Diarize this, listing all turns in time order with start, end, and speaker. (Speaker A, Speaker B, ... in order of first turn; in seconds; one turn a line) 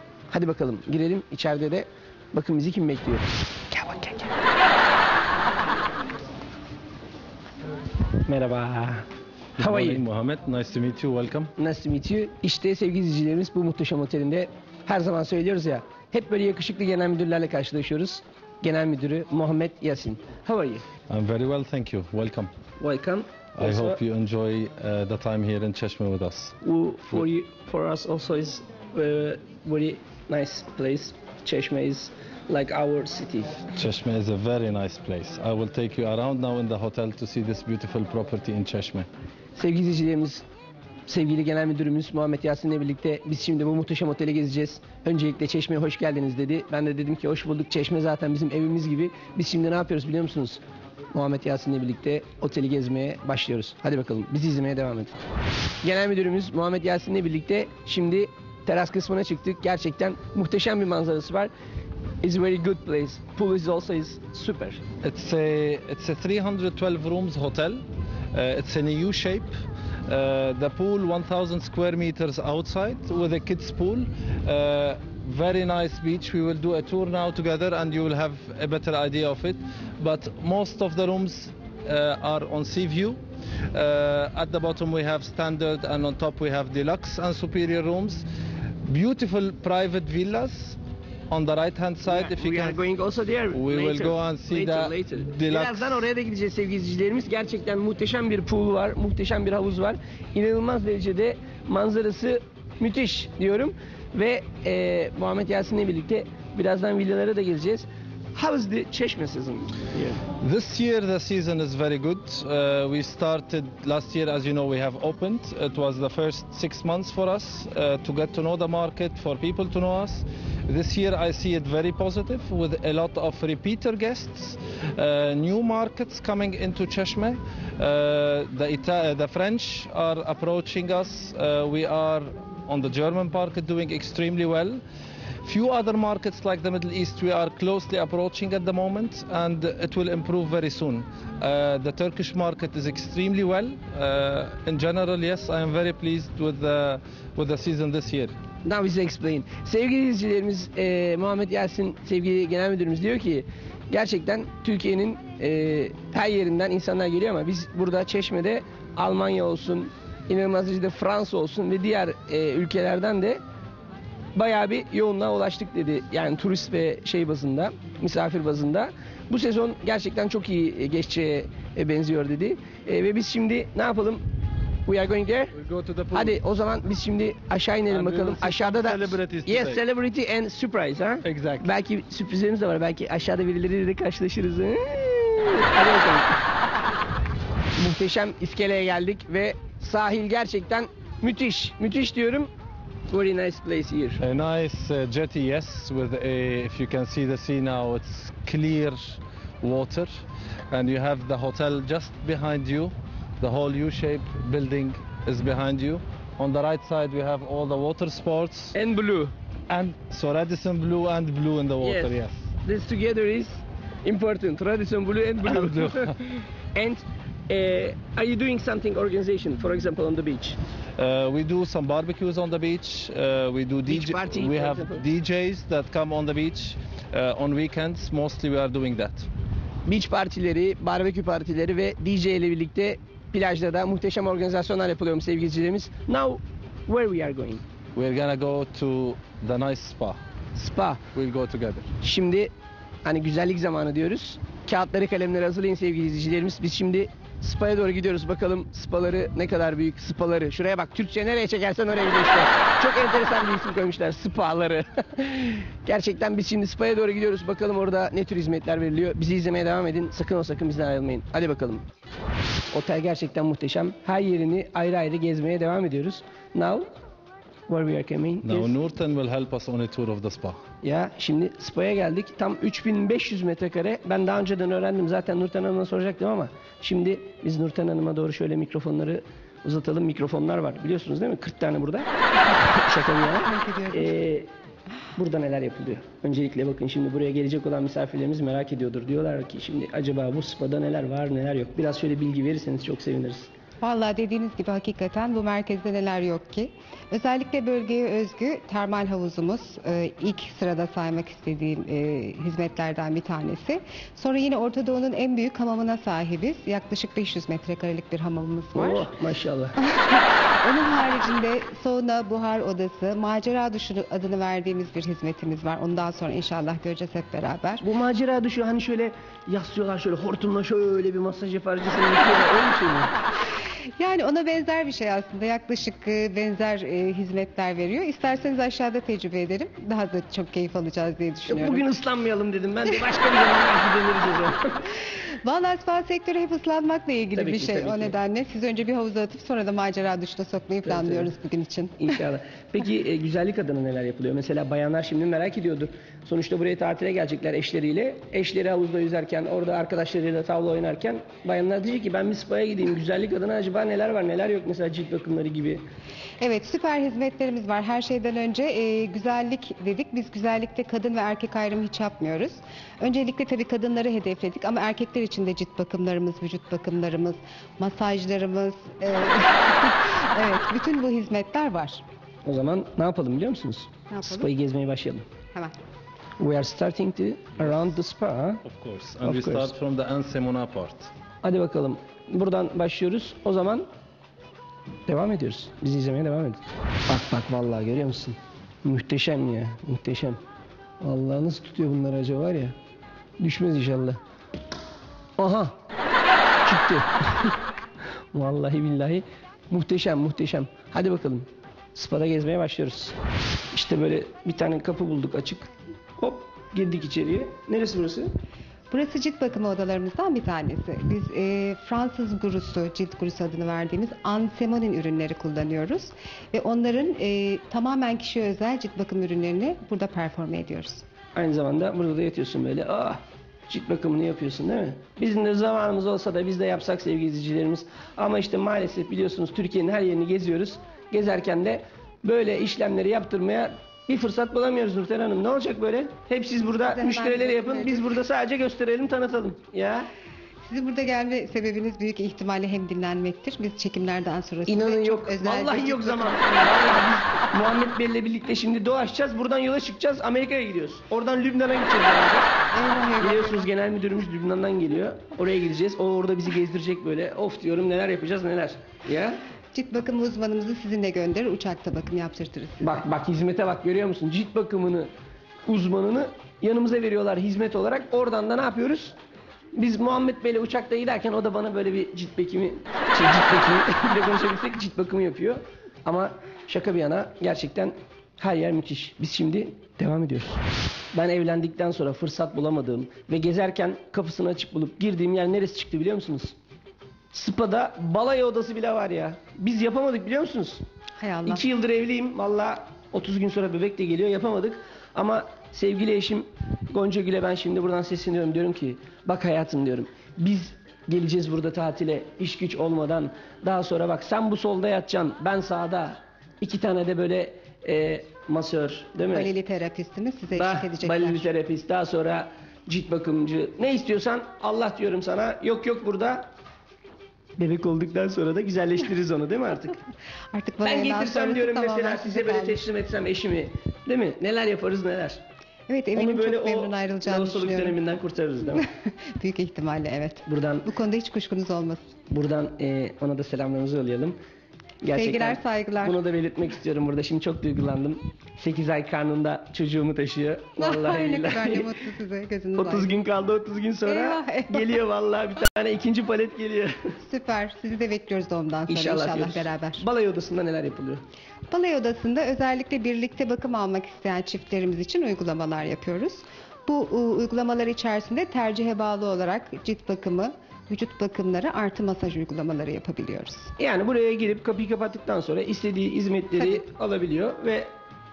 Speaker A: 0.3-4.3
Speaker A: 8.3-9.0
Speaker B: 9.6-11.5
Speaker A: 9.6-10.0
Speaker A: 11.6-20.9
Speaker B: 21.1-22.5
Speaker A: 22.8-24.0
Speaker B: 23.6-26.6
Speaker A: 26.6-33.6
Speaker B: 33.8-39.1
Speaker A: 39.6-40.4
Speaker A: 41.1-50.6
Speaker A: 51.1-55.2
Speaker A: 55.8-61.5
Speaker A: 62.2-64.8
Speaker B: 65.0-69.5
Speaker B: 70.1-88.2
Speaker B: 88.8-92.8
Speaker A: 92.0-110.2
Speaker B: 93.5-96.1
Speaker B: 110.4-134.8
Speaker B: 135.4-148.3
Speaker A: 148.6-163.4
Speaker A: 164.3-174.2
Speaker A: 174.9-175.6
Speaker B: 175.6-176.4
Speaker A: 176.1-186.3
Speaker B: 177.9-179.8
Speaker B: 181.2-181.7
Speaker A: 187.8-192.5
Speaker A: 193.1-194.2
Speaker B: 194.2-208.8
Speaker A: 208.7-209.3
Speaker B: 209.7-212.5
Speaker A: 211.8-220.6
Speaker B: 215.5-216.1
Speaker B: 221.0-229.3
Speaker A: 223.9-225.1
Speaker A: 229.8-237.6
Speaker B: 237.9-240.2
Speaker A: 240.6-241.0
Speaker B: 241.1-241.9
Speaker A: 242.0-242.5
Speaker A: 243.0-261.9
Speaker A: 262.7-266.9
Speaker A: 267.7-268.8
Speaker B: 268.4-270.6
Speaker A: 270.8-284.5
Speaker C: 283.4-284.2
Speaker A: 285.2-293.5
Speaker C: 293.8-309.1
Speaker A: 308.7-309.8
Speaker C: 309.8-317.8
Speaker A: 317.8-323.1
Speaker C: 324.0-331.9
Speaker A: 331.5-334.9
Speaker C: 335.4-342.0
Speaker A: 337.4-338.1
Speaker A: 340.9-341.3
Speaker A: 342.0-355.9
Speaker C: 356.4-372.0
Speaker A: 372.4-375.2
Speaker C: 374.1-374.5
Speaker A: 376.4-378.6
Speaker B: 378.6-381.1
Speaker A: 379.2-379.8
Speaker A: 381.4-383.9
Speaker A: 385.1-390.4
Speaker A: 391.0-392.8
Speaker A: 393.4-394.2
Speaker A: 395.4-395.8
Speaker A: 396.6-397.6
Speaker A: 398.3-403.2
Speaker A: 403.7-408.3
Speaker C: 408.9-421.0
Speaker A: 421.4-440.1
Speaker C: 436.8-438.2
Speaker C: 440.7-447.1
Speaker A: 444.7-452.5
Speaker C: 452.7-453.7
Speaker A: 453.2-459.4
Speaker C: 459.7-462.9
Speaker A: 462.8-465.1
Speaker A: 465.7-469.1
Speaker A: 469.8-486.6
Speaker A: 487.3-490.8
Speaker C: 491.2-491.6
Speaker A: 491.5-509.5
Speaker C: 509.3-511.5
Speaker A: 510.5-516.5
Speaker A: 517.6-520.0
Speaker C: 520.5-522.9
Speaker A: 520.8-525.4
Speaker C: 525.9-528.0
Speaker A: 526.1-528.9
Speaker C: 528.8-532.0
Speaker A: 530.5-530.9
Speaker A: 532.3-534.4
Speaker A: 535.0-541.9
Speaker C: 535.1-536.2
Speaker C: 540.8-543.2
Speaker A: 542.8-547.2
Speaker C: 544.1-545.0
Speaker C: 547.2-550.1
Speaker A: 548.9-551.2
Speaker C: 551.7-563.7
Speaker A: 563.8-567.9